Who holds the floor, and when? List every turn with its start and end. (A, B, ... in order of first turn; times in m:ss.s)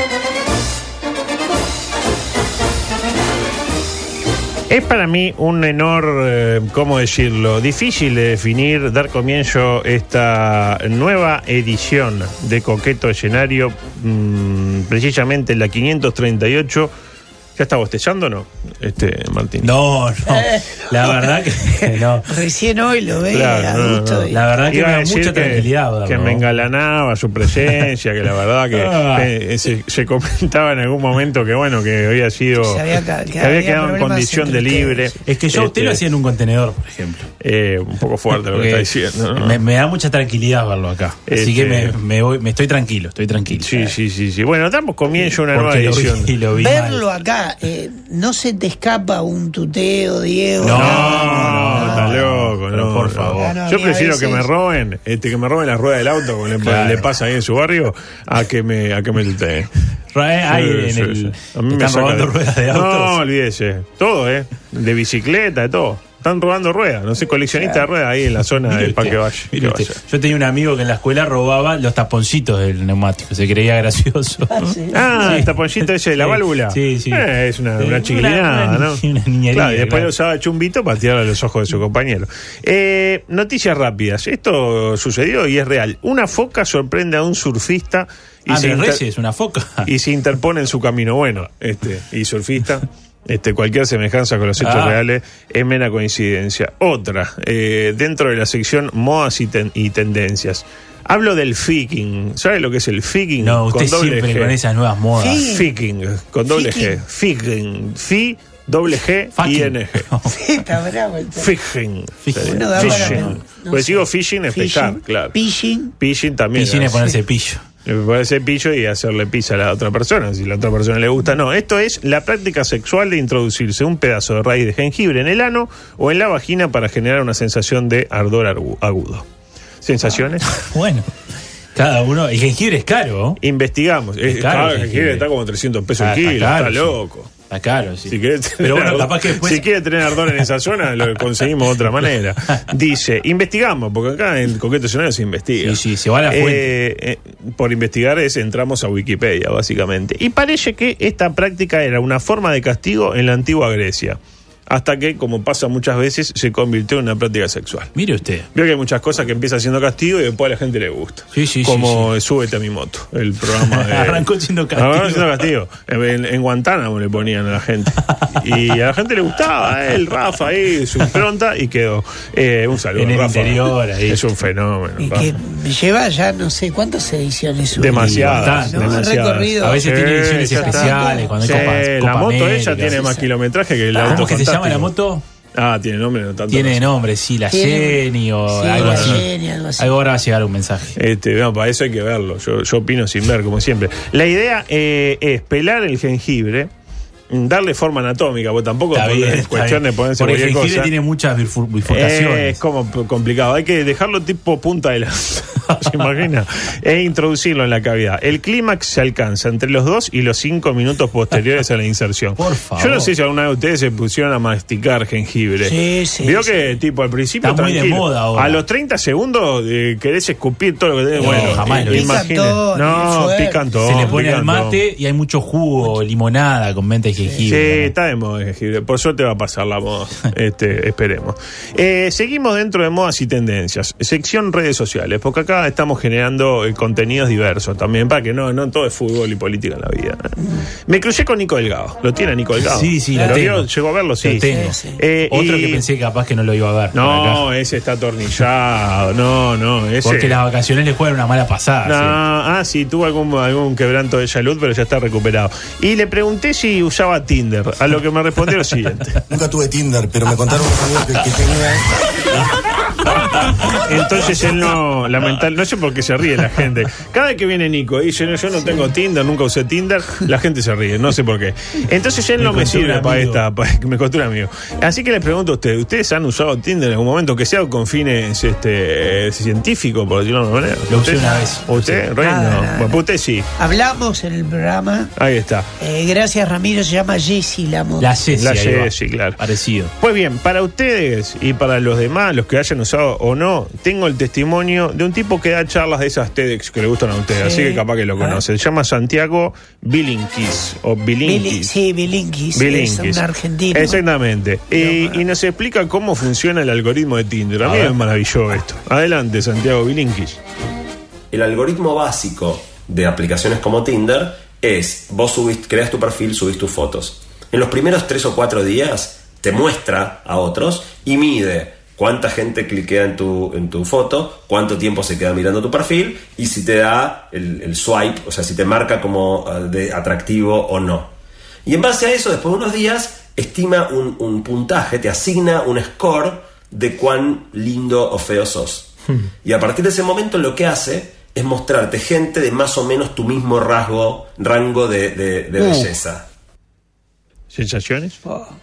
0:04.7-0:16.9 A
0:17.6-0:19.7 A
0:19.6-0:22.3 B
0:20.3-0:24.4 C
0:23.3-0:36.0 A
0:24.3-0:26.4 B
0:28.7-0:29.3 B
0:32.6-0:35.1 C
0:35.2-0:37.2 B
0:37.4-0:39.6 A
0:38.5-0:43.8 B
0:41.3-0:42.0 A
0:43.6-0:46.3 A
0:45.2-0:47.0 B
0:46.5-0:52.1 C
0:50.6-0:53.6 B
0:50.7-0:59.7 A
0:53.4-0:54.5 C
0:56.6-0:57.1 B
1:00.1-1:03.2 B
1:00.5-1:10.0 A
1:07.6-1:07.8 C
1:08.7-1:15.5 B
1:14.5-1:15.4 C
1:14.9-1:19.0 A
1:16.2-1:17.2 B
1:17.8-1:20.1 B
1:19.5-1:29.0 A
1:28.5-1:29.9 B
1:29.8-1:44.6 A
1:34.6-1:35.0 B
1:43.4-1:45.4 B
1:45.2-1:45.7 C
1:45.4-1:50.0 A
1:46.5-1:46.9 C
1:49.4-1:50.3 B
1:50.3-1:51.5 C
1:51.4-1:55.3 A
1:52.2-1:53.4 B
1:52.4-1:55.9 C
1:56.0-1:57.0 A
1:56.5-1:57.6 B
1:57.8-2:09.2 A
2:09.8-2:10.4 A
2:10.5-2:11.1 B
2:11.7-2:13.4 B
2:13.4-2:17.3 A
2:14.3-2:15.2 B
2:16.0-2:16.9 B
2:17.5-2:19.6 B
2:18.1-2:34.2 A
2:25.6-2:26.7 B
2:34.7-2:37.9 A
2:37.9-2:38.5 B
2:38.5-2:55.3 A
2:41.3-2:42.1 B
2:43.4-2:45.4 B
2:48.0-2:48.6 B
2:53.0-2:54.2 B
2:55.0-2:59.8 C
2:57.8-3:04.9 A
2:57.9-3:03.0 B
3:00.5-3:01.7 C
3:02.8-3:03.3 C
3:04.0-3:05.2 B
3:05.5-3:06.9 A
3:06.5-3:11.0 B
3:07.5-3:10.0 C
3:08.8-3:09.2 A
3:11.0-3:16.7 A
3:17.3-3:20.9 A
3:18.9-3:22.6 B
3:21.9-3:44.8 A
3:32.4-3:33.1 B
3:35.6-3:36.5 C
3:37.4-3:38.6 B
3:41.2-3:42.2 B
3:41.2-3:43.6 C
3:43.8-3:47.9 B
3:47.5-4:00.2 A
4:00.9-4:05.8 A
4:02.6-4:03.7 B
4:03.1-4:03.4 C
4:04.2-4:04.7 B
4:04.5-4:05.0 C
4:05.3-4:07.4 B
4:06.9-4:10.4 A
4:10.0-4:12.2 B
4:11.8-4:19.2 A
4:19.3-4:21.8 D
4:23.6-4:43.5 A
4:32.4-4:33.4 B
4:40.9-4:42.0 B
4:41.2-4:41.6 C
4:42.2-4:43.0 C
4:43.6-4:45.1 C
4:45.2-4:45.7 A
4:45.8-4:48.1 C
4:48.0-4:49.9 B
4:48.3-4:49.4 A
4:50.0-5:01.7 A
4:57.3-4:58.4 C
5:01.2-5:04.0 C
5:02.5-5:10.4 A
5:04.8-5:05.2 C
5:07.6-5:08.0 B
5:11.3-5:31.1 E
5:31.6-5:46.2 E
5:47.5-5:48.2 A
5:48.3-5:48.5 C